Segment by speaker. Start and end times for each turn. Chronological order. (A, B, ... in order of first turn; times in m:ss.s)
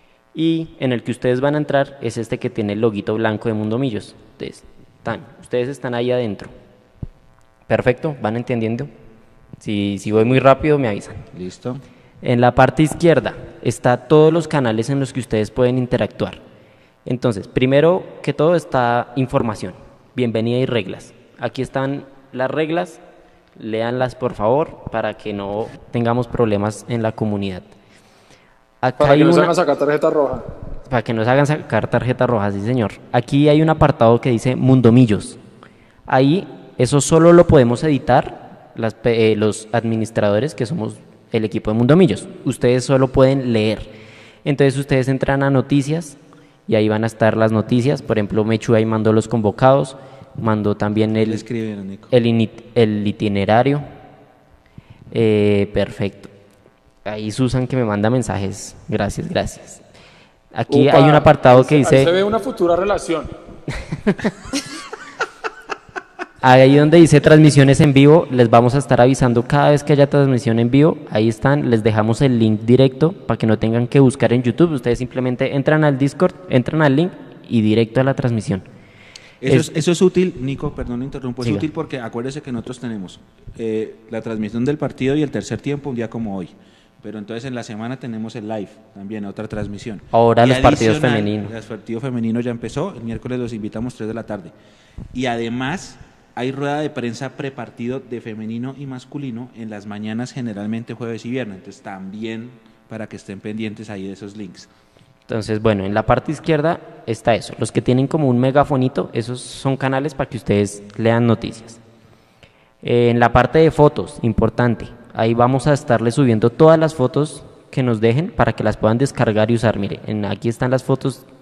0:00.3-0:06.5 A
0:07.7-0:08.9 A
0:09.6-0:11.2 A
0:11.3-0:11.8 B
0:12.2-0:16.4 A
0:17.0-0:23.0 A
0:23.6-0:27.7 A
0:28.8-0:29.5 A
0:29.0-0:30.4 C
0:30.9-0:35.4 A
0:36.1-0:43.9 A
0:44.4-0:51.4 A
0:51.2-0:52.1 B
0:52.1-0:53.8 A
0:55.1-0:56.3 A
0:57.0-0:59.8 A
1:00.5-1:02.1 A
1:00.7-1:03.3 C
1:03.9-1:04.3 A
1:06.4-1:18.6 A
1:19.4-1:34.5 B
1:21.4-1:21.7 A
1:30.1-1:31.5 A
1:35.1-1:44.7 B
1:45.3-1:51.8 A
1:52.8-2:01.2 A